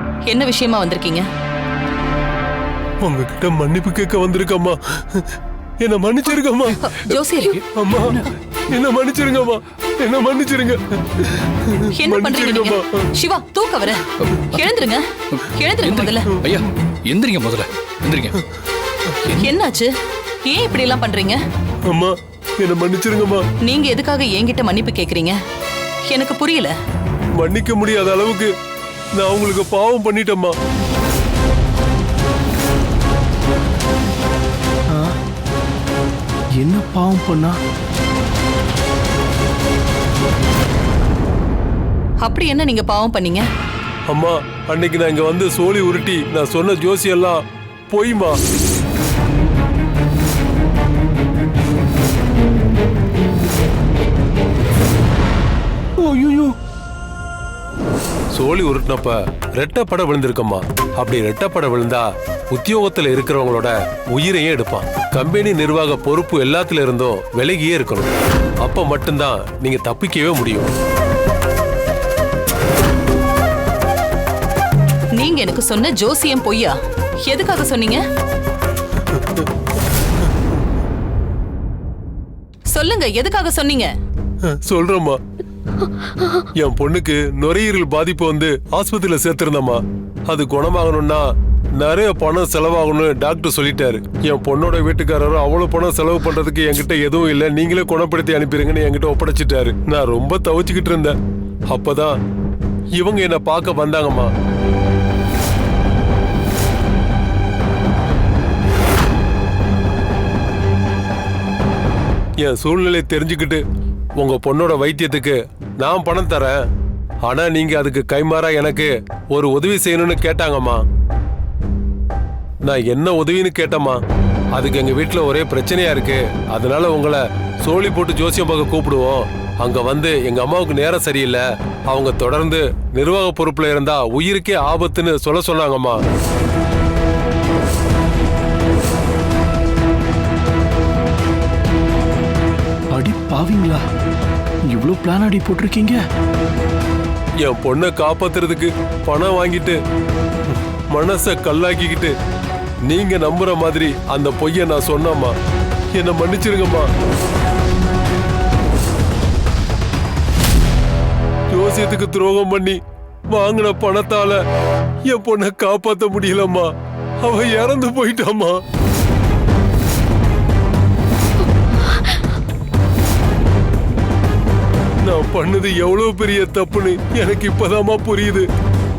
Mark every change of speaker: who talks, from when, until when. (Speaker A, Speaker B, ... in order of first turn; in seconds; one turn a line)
Speaker A: 0.2-1.3
Speaker B: 3.0-6.8
Speaker A: 6.8-7.6
Speaker B: 7.7-13.1
Speaker A: 11.8-16.3
Speaker C: 15.4-18.4
Speaker A: 19.3-19.9
Speaker A: 20.5-21.4
Speaker B: 21.9-23.5
Speaker A: 23.6-25.4
Speaker A: 26.1-26.7
Speaker B: 27.4-28.5
Speaker B: 29.1-30.6
Speaker D: 36.6-37.6
Speaker A: 42.2-43.5
Speaker B: 44.1-47.4
Speaker B: 47.9-48.4
Speaker D: 56.0-56.5
Speaker B: 58.3-68.1
Speaker B: 68.6-70.7
Speaker A: 75.2-78.0
Speaker B: 79.1-79.5
Speaker A: 82.7-83.9
Speaker B: 84.5-85.2
Speaker B: 86.6-101.2
Speaker B: 101.7-102.2
Speaker B: 103.0-104.3
Speaker B: 112.4-113.6
Speaker B: 114.2-116.6
Speaker B: 117.2-120.8
Speaker B: 122.6-124.0
Speaker B: 124.5-136.0
Speaker D: 142.9-143.8
Speaker D: 144.7-146.0
Speaker B: 147.4-149.8
Speaker B: 150.9-152.1
Speaker B: 152.9-155.3
Speaker B: 155.9-156.9
Speaker B: 161.5-162.8
Speaker B: 163.3-164.4
Speaker B: 165.1-166.7
Speaker B: 167.2-168.6
Speaker B: 175.0-178.5